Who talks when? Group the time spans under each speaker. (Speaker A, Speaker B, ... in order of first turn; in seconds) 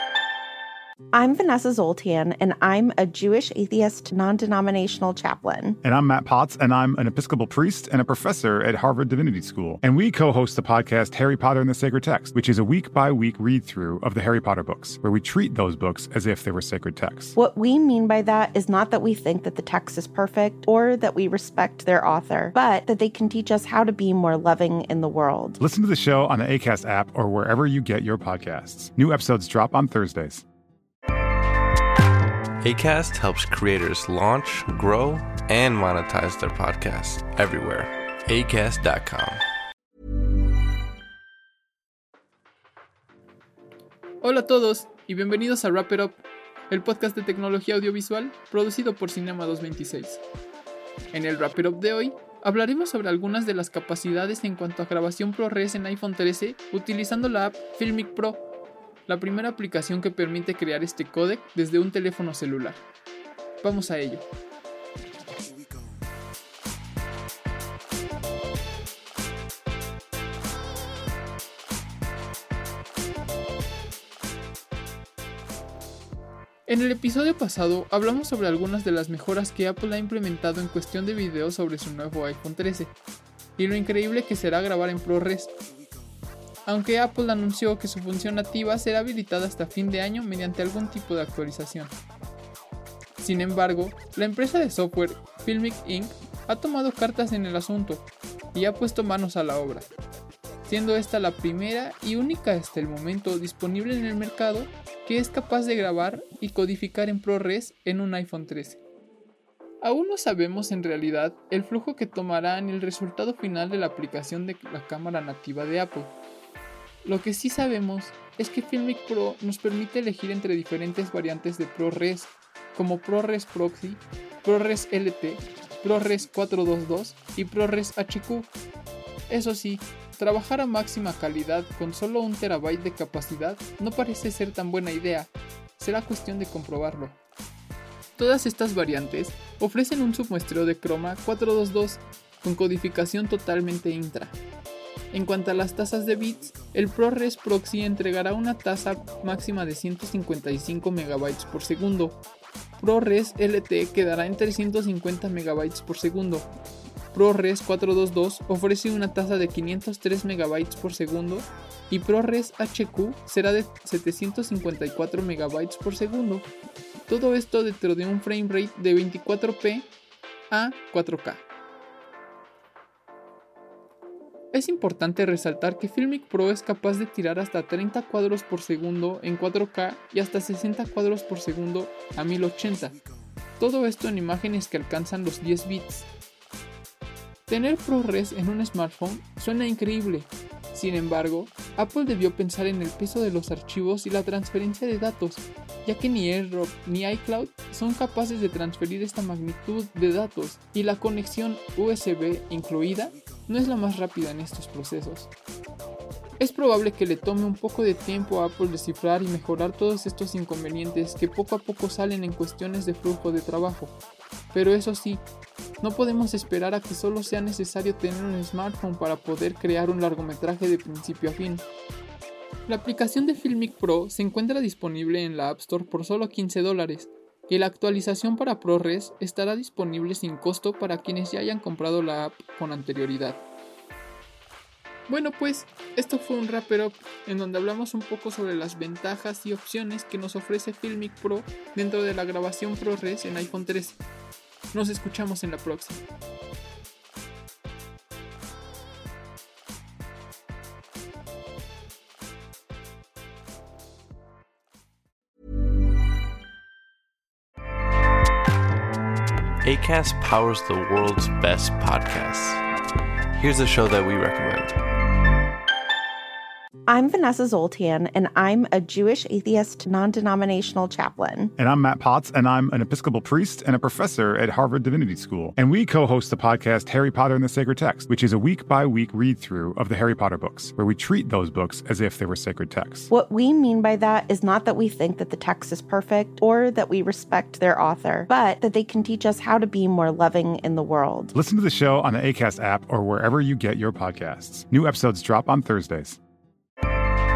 Speaker A: 1.1-5.8, 17.3-25.6, 266.9-271.5, 283.1-291.3
Speaker B: 5.8-17.3, 25.6-30.4, 271.6-283.1, 291.3-296.2
Speaker C: 32.6-39.4, 259.6-262.6, 263.3-264.8
Speaker D: 44.2-50.2, 51.1-58.4, 59.1-62.8, 63.6-64.3, 76.7-82.9, 83.6-85.5, 86.7-92.0, 93.2-99.9, 100.7-108.8, 109.8-116.2, 117.0-128.5, 129.3-137.2, 138.2-144.4, 145.1-152.2, 152.8-156.5, 157.1-166.5, 167.1-169.9, 170.5-171.4, 174.5-183.0, 183.6-186.1, 187.5-205.3, 206.4-214.0, 214.5-215.2, 215.8-221.6, 222.7-233.4, 235.1-244.0, 244.7-246.0